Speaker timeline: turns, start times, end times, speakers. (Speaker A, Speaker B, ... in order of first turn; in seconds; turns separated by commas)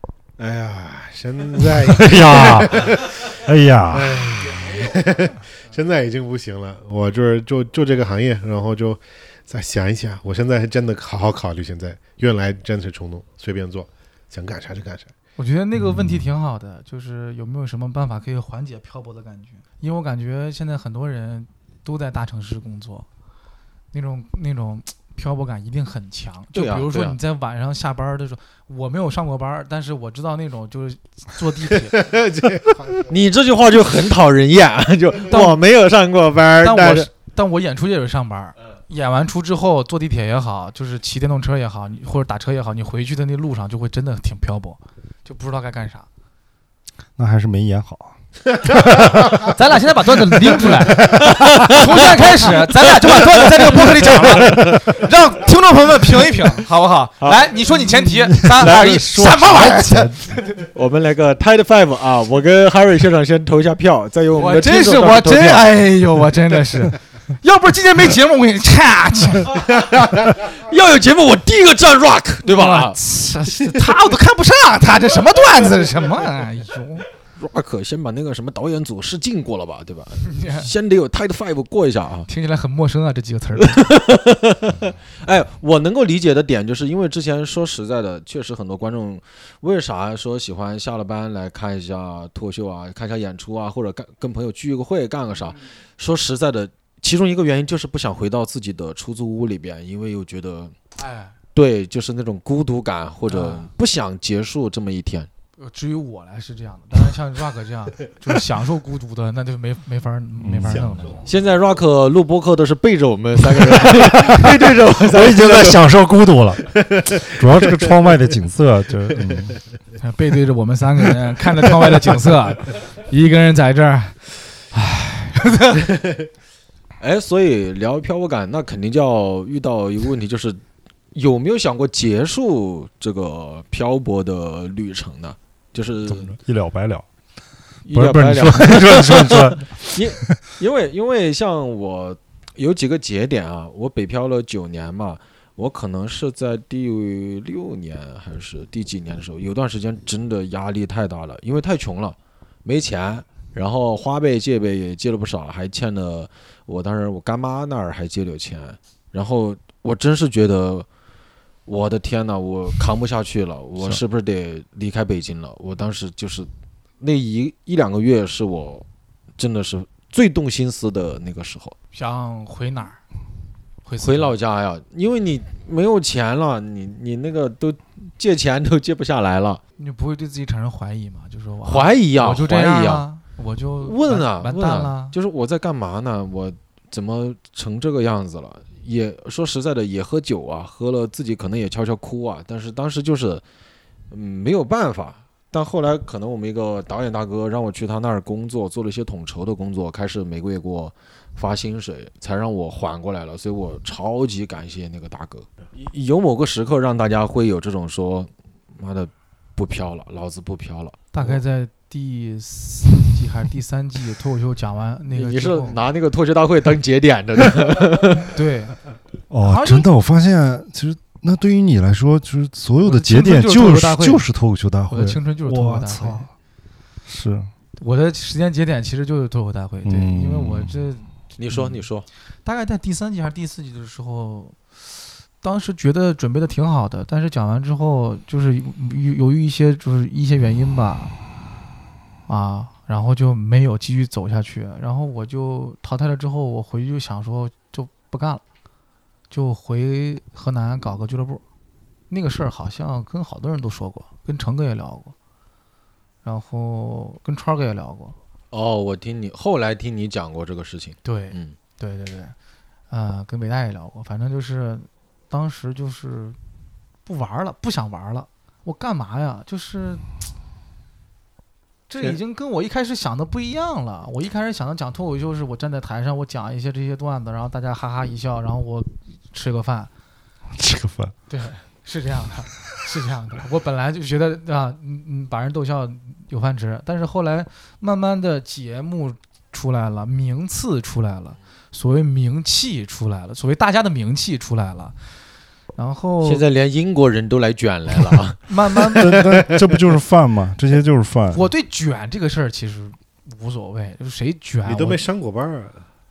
Speaker A: 0.4-3.4, Speaker B: 1.6-4.8, Speaker A: 3.9-15.1, Speaker C: 15.4-23.1, Speaker B: 15.8-16.3, Speaker C: 23.9-32.0, Speaker D: 26.5-27.2, Speaker A: 31.9-33.1, Speaker D: 33.1-37.1, Speaker C: 35.3-35.6, Speaker C: 36.6-46.1, Speaker B: 47.2-49.5, Speaker C: 49.4-60.7, Speaker D: 51.1-54.8, Speaker D: 57.2-57.5, Speaker B: 57.9-60.2, Speaker D: 58.6-59.1, Speaker D: 60.7-65.7, Speaker C: 64.4-69.6, Speaker D: 70.4-73.0, Speaker C: 72.5-77.0, Speaker D: 77.4-82.3, Speaker C: 80.2-80.7, Speaker C: 82.3-83.9, Speaker D: 83.6-100.8, Speaker C: 101.0-101.3, Speaker D: 101.5-105.3, Speaker C: 103.3-103.7, Speaker C: 105.6-111.3, Speaker B: 110.4-111.1, Speaker A: 110.7-111.2, Speaker D: 111.2-115.8, Speaker B: 114.0-119.6, Speaker A: 117.0-117.9, Speaker C: 120.0-126.0, Speaker D: 127.0-130.6, Speaker D: 131.1-136.3, Speaker B: 136.1-137.1, Speaker D: 137.8-160.9, Speaker B: 137.9-140.4, Speaker D: 161.7-166.5, Speaker D: 167.0-168.9, Speaker D: 169.4-171.7, Speaker C: 171.9-173.0, Speaker C: 173.8-174.3, Speaker D: 174.0-179.6, Speaker C: 179.8-185.1, Speaker D: 181.6-183.1, Speaker D: 183.8-193.4, Speaker D: 194.1-211.4, Speaker C: 211.1-215.8, Speaker D: 215.1-218.3, Speaker C: 218.2-218.8, Speaker B: 219.3-226.3, Speaker C: 219.4-219.9, Speaker C: 222.8-224.2, Speaker C: 224.9-226.3, Speaker B: 227.1-227.5, Speaker C: 227.8-231.8, Speaker B: 229.8-230.8, Speaker D: 231.4-232.1, Speaker C: 232.4-234.8, Speaker C: 235.4-241.1, Speaker C: 242.3-248.4, Speaker C: 249.3-251.4, Speaker C: 252.1-255.1, Speaker C: 256.2-258.1, Speaker D: 258.5-261.6, Speaker C: 261.0-262.4, Speaker C: 262.9-266.4, Speaker C: 267.1-270.1, Speaker C: 271.9-279.9, Speaker B: 280.6-281.1, Speaker C: 281.3-294.9, Speaker C: 295.8-296.4, Speaker D: 296.2-298.4, Speaker C: 298.5-299.2, Speaker B: 298.9-301.5, Speaker A: 299.2-299.8, Speaker C: 301.3-305.0, Speaker A: 304.6-305.9